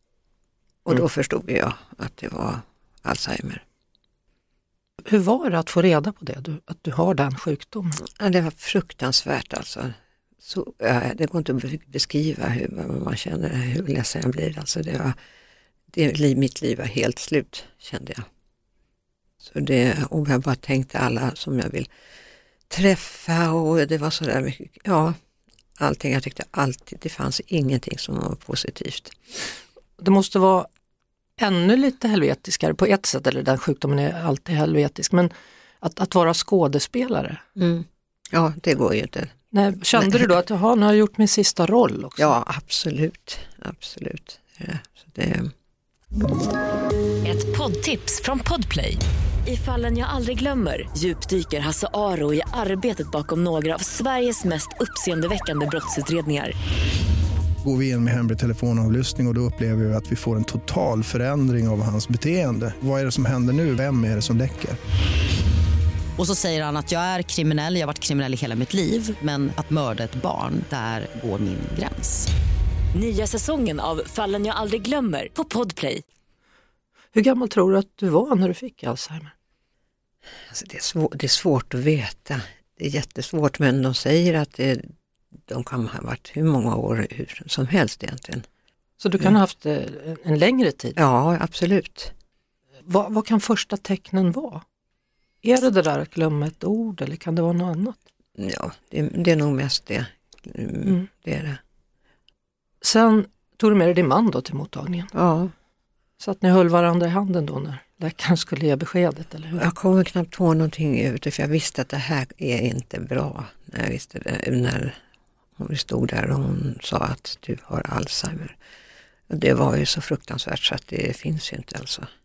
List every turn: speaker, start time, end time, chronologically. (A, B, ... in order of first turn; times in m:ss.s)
0:00.8-0:03.6 A
0:05.0-0:08.0 B
0:08.0-0:15.2 A
0:15.9-0:18.3 A
0:19.4-0:21.9 A
0:22.7-0:25.2 A
0:25.8-0:29.1 A
0:30.0-0:30.7 B
0:31.4-0:37.4 B
0:37.6-0:39.4 A
0:39.5-0:42.3 B
0:40.0-0:40.3 A
0:42.2-0:45.5 A
0:47.2-0:56.6 C
0:57.6-1:04.8 D
1:06.2-1:12.3 E
1:12.9-1:16.0 C
1:17.1-1:19.3 B
1:20.5-1:24.9 A
1:25.5-1:28.4 A
1:29.0-1:31.0 B
1:31.0-1:32.1 A
1:32.8-1:34.6 B
1:35.4-1:38.0 B
1:38.4-1:41.6 A
1:42.8-1:45.1 B
1:45.1-1:45.5 A
1:46.2-1:49.7 B
1:49.6-1:55.0 A
1:55.6-1:58.6 A
1:59.3-2:02.1 A